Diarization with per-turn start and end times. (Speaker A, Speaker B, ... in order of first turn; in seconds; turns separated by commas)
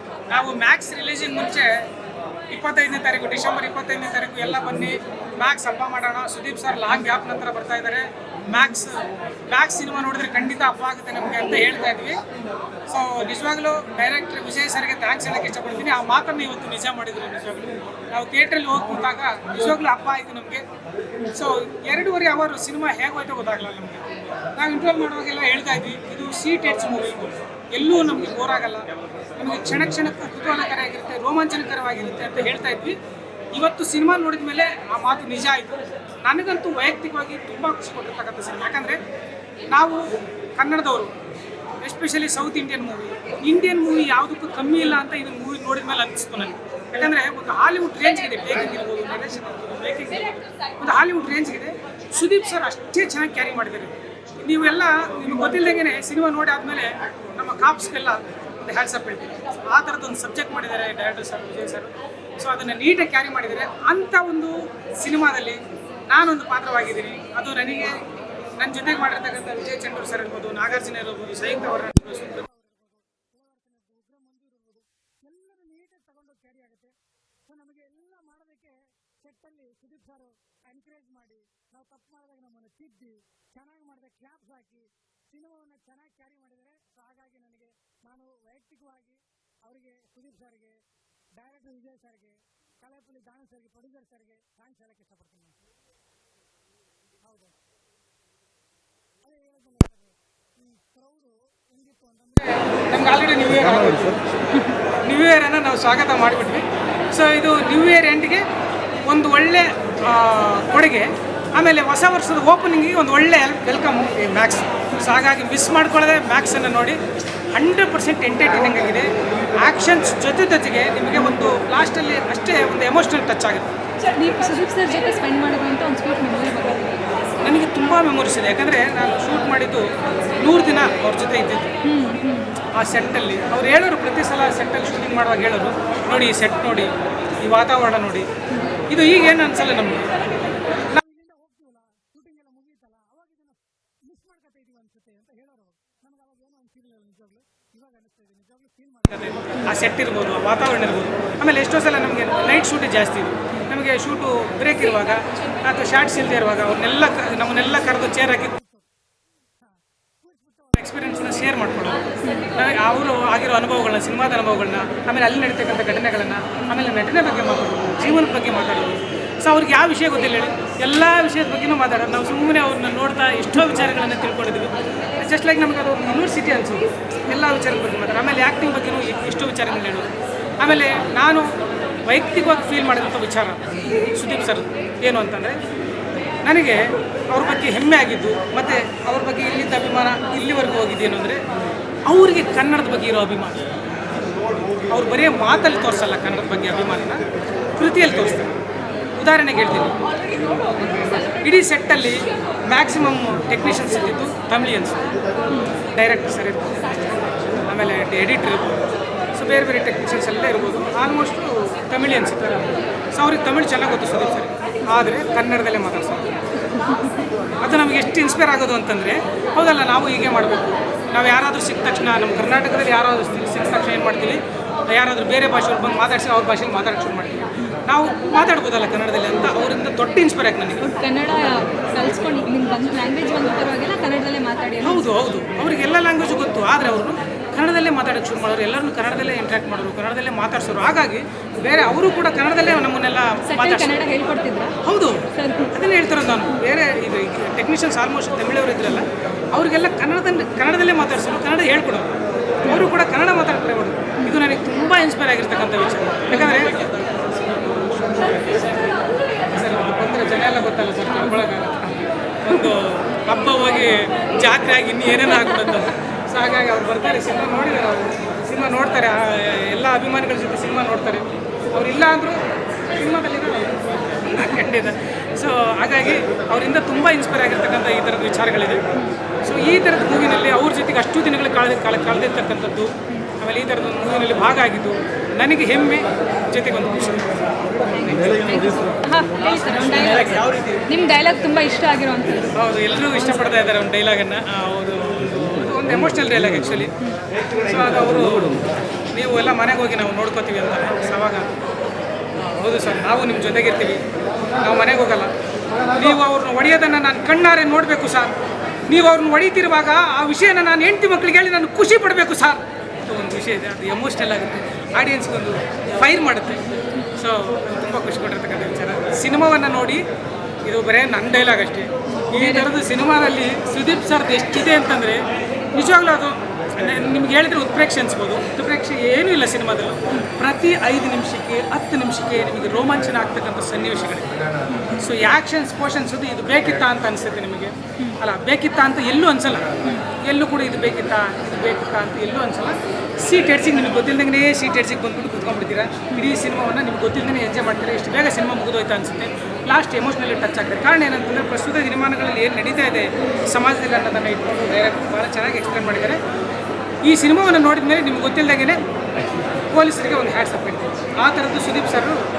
Speaker A: 0.3-1.8, Speaker A: 2.5-12.2, Speaker A: 12.9-20.6, Speaker A: 21.3-33.0, Speaker A: 33.5-39.0, Speaker A: 39.7-41.1, Speaker A: 41.8-68.0, Speaker A: 68.6-72.5, Speaker B: 73.9-76.9, Speaker B: 77.5-89.2, Speaker B: 89.7-90.8, Speaker B: 91.4-95.5, Speaker B: 99.4-99.9, Speaker B: 100.9-102.3, Speaker A: 102.4-104.2, Speaker A: 105.0-108.4, Speaker A: 109.0-117.0, Speaker A: 117.5-119.1, Speaker A: 119.6-123.7, Speaker C: 124.0-127.1, Speaker A: 127.4-131.7, Speaker C: 131.8-132.6, Speaker A: 132.7-138.3, Speaker A: 138.9-140.1, Speaker B: 141.0-143.4, Speaker B: 144.1-149.0, Speaker A: 149.1-158.6, Speaker A: 160.7-181.5, Speaker A: 182.1-185.6, Speaker A: 186.4-191.4, Speaker A: 192.1-193.6, Speaker A: 194.9-197.2, Speaker A: 197.8-198.6, Speaker A: 199.2-200.0, Speaker A: 201.4-205.0, Speaker A: 205.8-208.8, Speaker A: 209.3-216.3, Speaker A: 217.6-230.9, Speaker C: 230.8-235.1, Speaker A: 234.8-244.0, Speaker C: 243.4-244.8, Speaker A: 244.8-252.1, Speaker C: 245.3-245.7, Speaker A: 252.6-256.9, Speaker C: 256.3-256.7, Speaker A: 258.0-258.9, Speaker A: 259.5-272.4, Speaker A: 272.9-278.8, Speaker A: 279.4-287.3, Speaker C: 287.9-292.6, Speaker A: 288.1-288.4, Speaker A: 292.5-296.9, Speaker A: 297.6-298.6, Speaker A: 299.1-301.5, Speaker A: 302.4-304.0, Speaker A: 304.6-305.3, Speaker A: 305.9-308.3, Speaker A: 308.9-316.6, Speaker A: 317.1-320.0, Speaker A: 320.6-325.2, Speaker C: 322.1-322.8, Speaker A: 325.7-334.3, Speaker C: 334.7-335.0, Speaker A: 335.0-356.2, Speaker A: 357.0-358.8, Speaker A: 359.7-362.2